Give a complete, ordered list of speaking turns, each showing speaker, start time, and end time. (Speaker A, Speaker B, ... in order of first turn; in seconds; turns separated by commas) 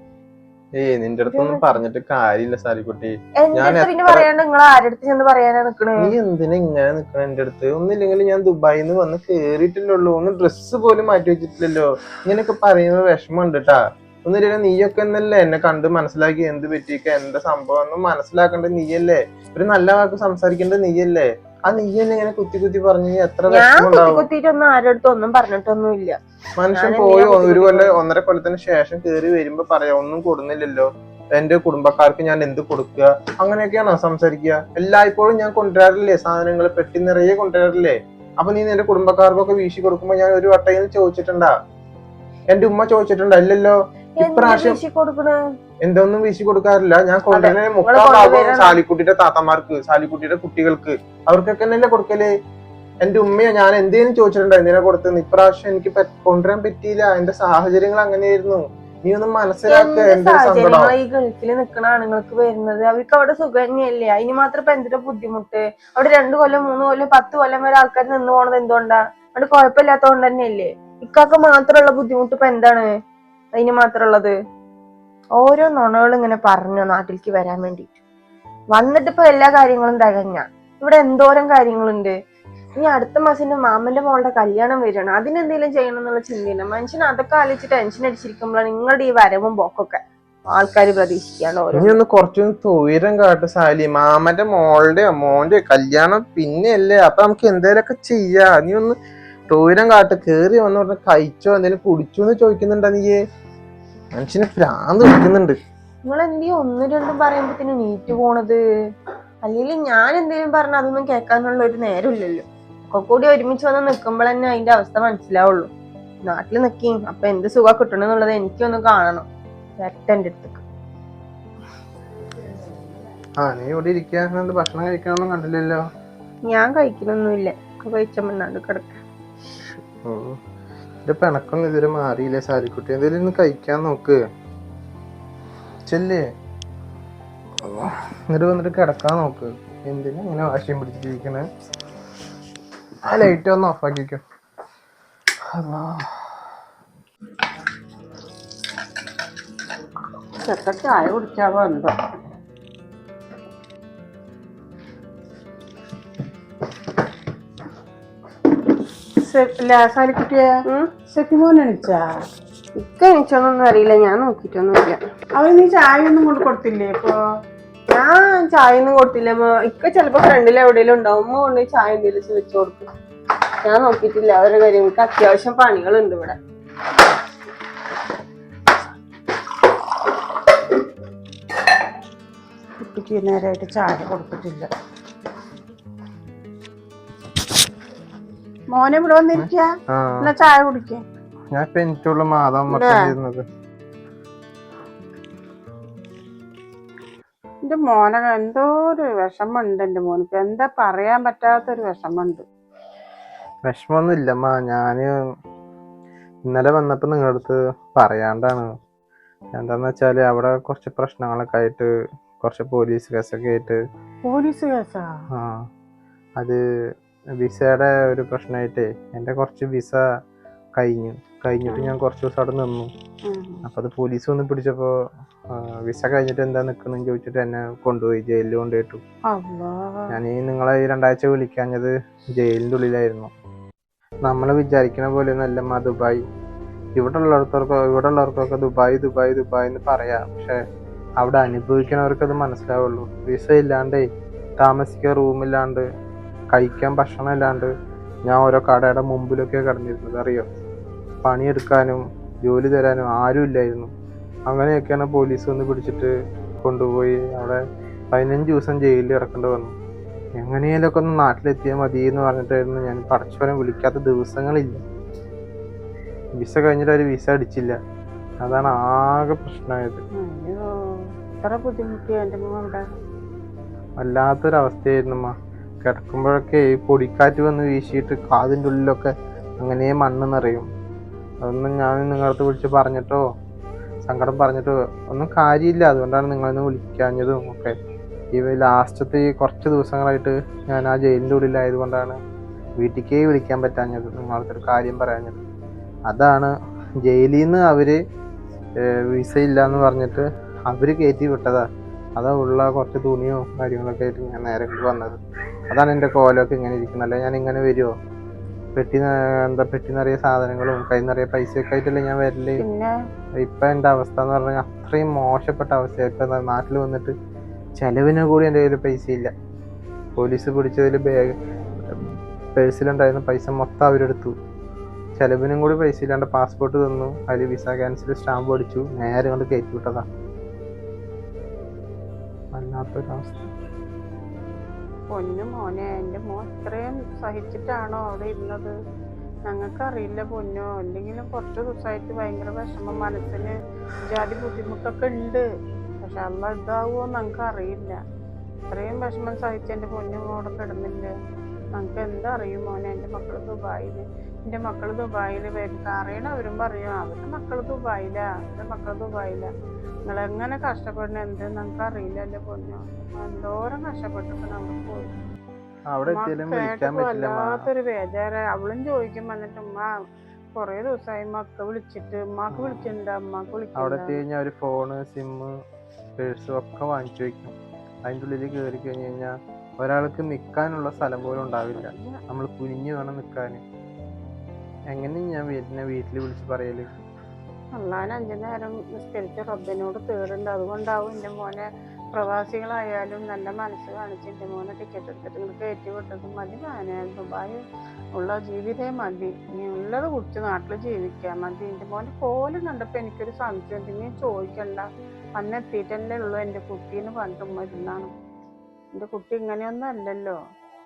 Speaker A: 0.8-4.3, Speaker B: 1.3-1.6, Speaker B: 3.4-6.1, Speaker A: 6.0-24.2, Speaker B: 23.5-26.2, Speaker A: 26.6-41.6, Speaker B: 26.7-28.0, Speaker A: 42.5-44.8, Speaker B: 44.2-45.4, Speaker A: 45.8-52.3, Speaker B: 47.3-48.8, Speaker A: 53.0-60.9, Speaker B: 59.7-72.9, Speaker B: 73.5-74.3, Speaker B: 75.4-78.0, Speaker B: 78.7-82.2, Speaker B: 82.8-92.0, Speaker A: 91.7-99.0, Speaker A: 99.5-103.2, Speaker A: 104.1-105.6, Speaker B: 106.0-108.6, Speaker B: 109.5-115.7, Speaker B: 116.2-119.3, Speaker B: 119.8-120.6, Speaker A: 123.4-125.9, Speaker B: 126.5-129.0, Speaker A: 129.6-130.4, Speaker A: 131.1-134.2, Speaker A: 135.9-136.3, Speaker A: 137.6-141.5, Speaker A: 143.0-144.2, Speaker A: 145.5-146.3, Speaker C: 150.4-151.9, Speaker C: 159.2-160.5, Speaker C: 161.1-162.1, Speaker B: 162.8-165.0, Speaker C: 165.4-167.2, Speaker B: 167.9-172.9, Speaker B: 173.6-176.4, Speaker C: 182.8-184.7, Speaker C: 188.7-191.0, Speaker A: 189.3-190.3, Speaker A: 191.5-193.5, Speaker C: 192.7-193.1, Speaker C: 197.7-202.4, Speaker A: 203.7-205.2, Speaker A: 206.4-208.8, Speaker A: 209.6-213.8, Speaker C: 214.2-215.2, Speaker A: 215.3-215.7, Speaker A: 217.4-220.2, Speaker A: 220.8-222.9, Speaker C: 221.7-222.0, Speaker C: 223.2-223.7, Speaker A: 223.7-229.0, Speaker C: 229.3-230.1, Speaker A: 230.1-233.3, Speaker A: 234.2-236.2, Speaker A: 237.0-240.6, Speaker A: 241.2-245.9, Speaker A: 246.5-247.7, Speaker A: 248.2-250.5, Speaker A: 251.2-253.9, Speaker A: 254.5-259.8, Speaker A: 260.4-264.8, Speaker A: 266.4-267.8, Speaker A: 268.4-270.0, Speaker C: 270.2-272.9, Speaker A: 274.0-280.7, Speaker A: 281.4-283.3, Speaker A: 284.1-287.8, Speaker A: 288.3-292.2, Speaker A: 292.8-295.4, Speaker A: 296.1-298.0, Speaker A: 298.8-305.2, Speaker A: 305.7-307.9, Speaker A: 308.8-312.6, Speaker C: 312.6-312.9, Speaker A: 313.4-317.1, Speaker A: 317.8-319.3, Speaker A: 320.2-324.4, Speaker A: 325.2-330.1, Speaker A: 332.5-333.5, Speaker C: 335.1-338.8, Speaker C: 339.5-345.4, Speaker C: 346.0-348.0, Speaker C: 348.7-351.1, Speaker C: 351.8-359.5, Speaker C: 360.1-365.2, Speaker A: 365.9-367.7, Speaker C: 366.1-369.9, Speaker C: 370.6-374.2, Speaker A: 372.5-372.9, Speaker A: 373.8-375.6, Speaker A: 376.2-383.6, Speaker C: 381.7-382.2, Speaker A: 384.9-386.9, Speaker C: 387.8-397.6, Speaker C: 398.1-408.1, Speaker C: 408.9-410.4